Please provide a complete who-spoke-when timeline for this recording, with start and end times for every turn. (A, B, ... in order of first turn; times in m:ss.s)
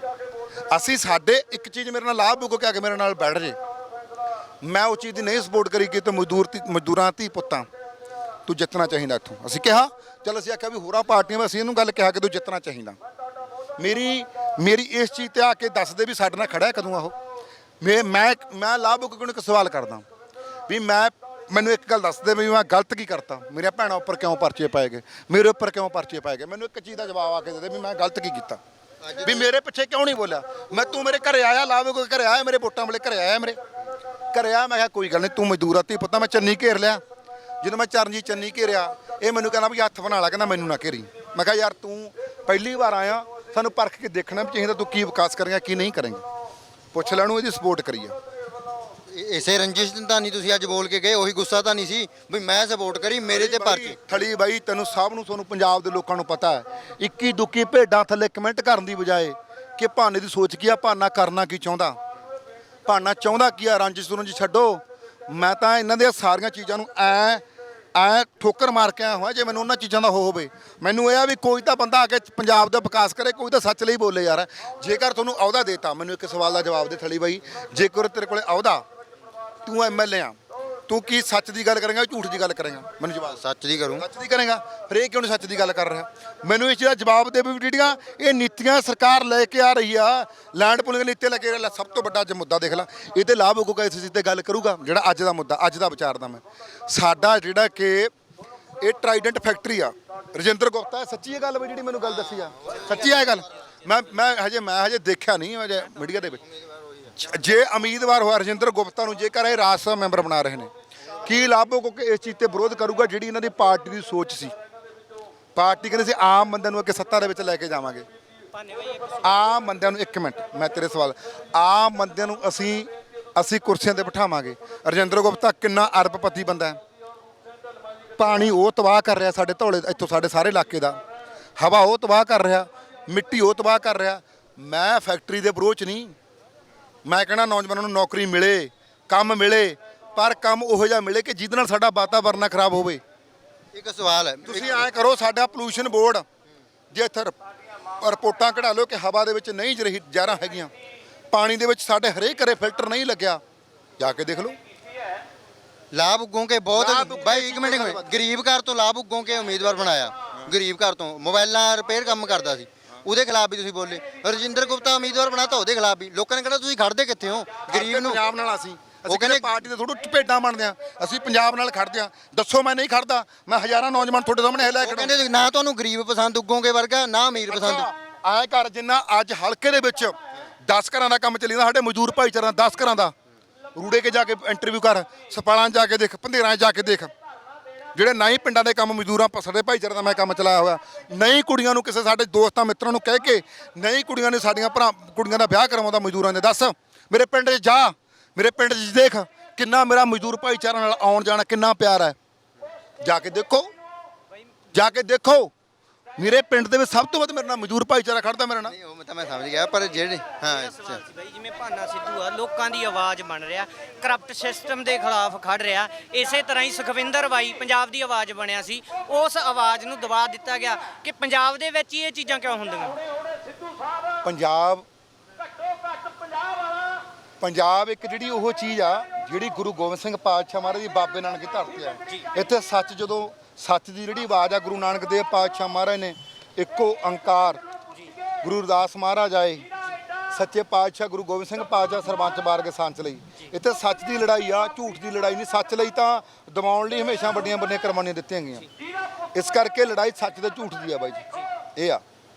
0:00.7-0:03.6 A
0:04.6-0:07.6 A
0:08.5-0:13.0 A
0:13.8-0:17.2 A
0:17.8-0:20.0 A
0:20.7-0:28.6 A
0:29.0-0:29.5 B
0:29.2-0:33.6 A
0:34.3-0:37.0 A
0:37.6-0:46.2 A
0:46.9-0:48.2 A
0:49.1-0:54.0 B
0:53.3-1:02.0 A
1:02.9-1:07.4 A
1:08.0-1:18.8 A
1:19.6-1:23.4 A
1:23.3-1:24.0 B
1:24.0-1:38.1 A
1:38.8-1:46.4 A
1:42.0-1:43.5 B
1:46.4-1:47.1 B
1:47.1-1:50.7 A
1:51.2-1:54.5 A
1:55.6-1:58.0 A
1:58.5-1:59.4 C
1:59.2-2:06.8 A
2:08.2-2:11.0 A
2:11.6-2:16.1 A
2:17.1-2:23.0 A
2:23.7-2:24.9 B
2:24.4-2:26.2 A
2:26.9-2:27.4 A
2:28.0-2:30.7 A
2:31.3-2:33.4 A
2:34.0-2:34.6 A
2:35.9-2:48.2 B
2:36.7-2:38.3 A
2:47.7-2:55.1 A
2:49.1-2:49.6 B
2:54.7-2:57.9 B
2:57.5-3:00.2 A
3:00.7-3:03.1 A
3:03.8-3:07.1 A
3:08.0-3:22.2 A
3:23.0-3:23.7 A
3:24.7-3:25.5 A
3:26.2-3:28.8 A
3:28.6-3:31.0 B
3:30.4-3:43.0 C
3:44.2-3:44.8 A
3:47.4-3:57.6 A
3:58.4-3:59.6 A
4:00.3-4:08.7 A
4:09.4-4:11.2 A
4:11.8-4:12.0 A